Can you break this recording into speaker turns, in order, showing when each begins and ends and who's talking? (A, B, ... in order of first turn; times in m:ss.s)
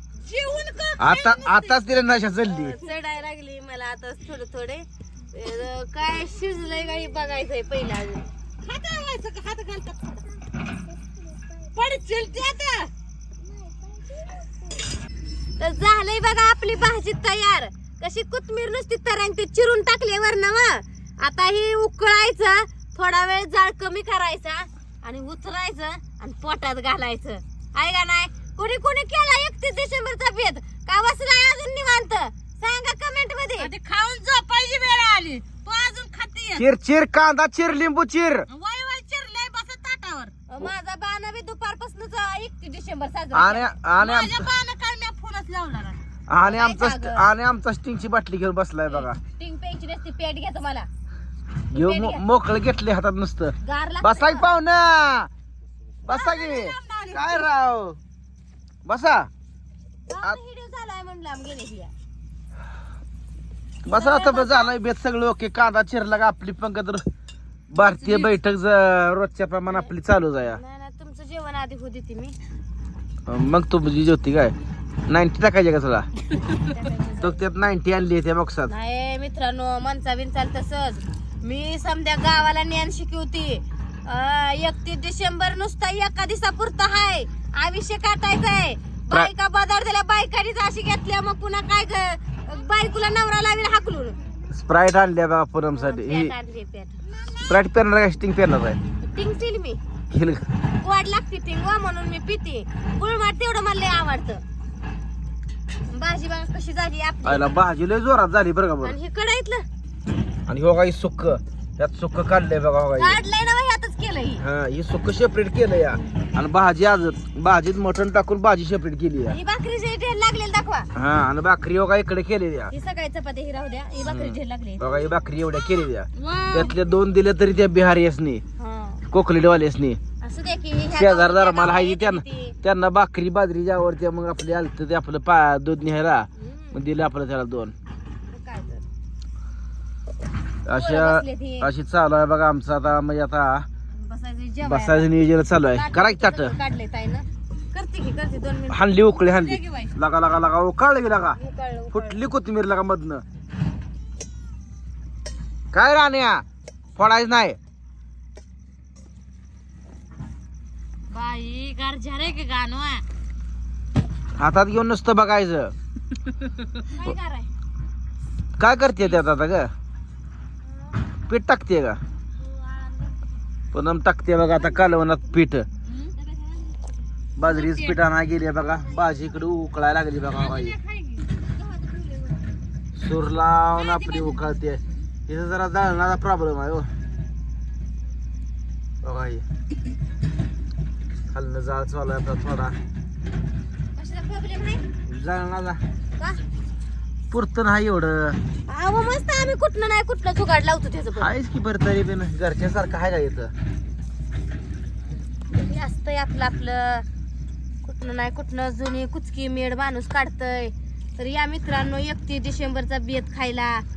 0:00.2-0:01.9 A
0:01.0-0:02.8 B
0:02.5-0:08.3 C
0:08.6-0:10.2 A
0:11.7-0:12.9 A
0:15.6-0:33.7 C
0:33.6-0:36.7 A
0:36.6-0:38.5 B
0:38.5-0:40.3 A
0:40.5-0:43.7 C
0:43.3-0:44.5 B
0:44.0-0:46.0 A
0:46.3-0:49.2 B
0:46.4-0:47.2 C
0:49.2-0:50.9 C
0:51.7-0:52.2 C
0:51.7-0:55.3 B
0:53.6-0:54.5 C
0:56.0-0:58.0 B
0:56.1-0:57.2 A
0:56.2-0:56.6 C
0:58.8-0:59.3 B
1:00.1-1:01.9 C
1:03.8-1:07.0 B
1:03.9-1:04.7 C
1:07.7-1:10.6 B
1:07.8-1:08.3 A
1:10.5-1:12.4 C
1:13.3-1:14.6 B
1:15.1-1:16.1 B
1:16.4-1:16.8 A
1:16.6-1:17.4 C
1:17.2-1:18.7 B
1:18.7-1:34.2 C
1:34.5-1:36.3 B
1:35.7-1:37.1 C
1:37.5-1:38.8 B
1:39.0-1:39.8 C
1:40.1-1:40.4 B
1:40.8-1:44.4 C
1:45.9-1:47.6 C
1:47.2-1:49.0 B
1:48.8-1:49.6 C
1:50.5-1:53.2 B
1:53.0-1:54.4 C
1:54.4-1:59.4 B
1:59.3-2:00.9 C
2:01.0-2:02.7 B
2:02.7-2:05.0 C
2:04.0-2:08.4 B
2:06.2-2:06.7 A
2:08.6-2:09.0 C
2:09.1-2:10.0 B
2:10.2-2:12.6 C
2:10.9-2:17.7 B
2:16.4-2:16.8 C
2:18.3-2:18.9 C
2:20.7-2:23.7 B
2:20.7-2:21.7 C
2:23.9-2:25.2 C
2:24.6-2:26.5 B
2:25.7-2:27.3 C
2:27.7-2:29.9 A
2:28.7-2:31.4 B
2:31.3-2:32.2 C
2:31.9-2:33.2 B
2:35.7-2:36.4 B
2:37.0-2:37.6 B
2:41.1-2:43.0 A
2:44.4-2:45.7 B
2:46.9-2:47.5 C
2:48.6-2:49.7 B
2:51.3-2:52.0 B
2:52.4-2:53.3 A
2:53.7-2:55.7 B
2:55.9-2:56.7 A
2:57.4-3:00.8 B
2:57.4-2:58.0 A
3:00.3-3:02.4 A
3:03.0-3:06.9 B
3:03.7-3:04.4 A
3:09.0-3:09.4 B
3:11.3-3:12.8 B
3:14.0-3:14.8 C
3:15.1-3:15.8 B
3:17.3-3:18.4 B
3:18.7-3:21.3 C
3:21.2-3:23.5 B
3:25.5-3:27.0 C
3:27.8-3:33.8 C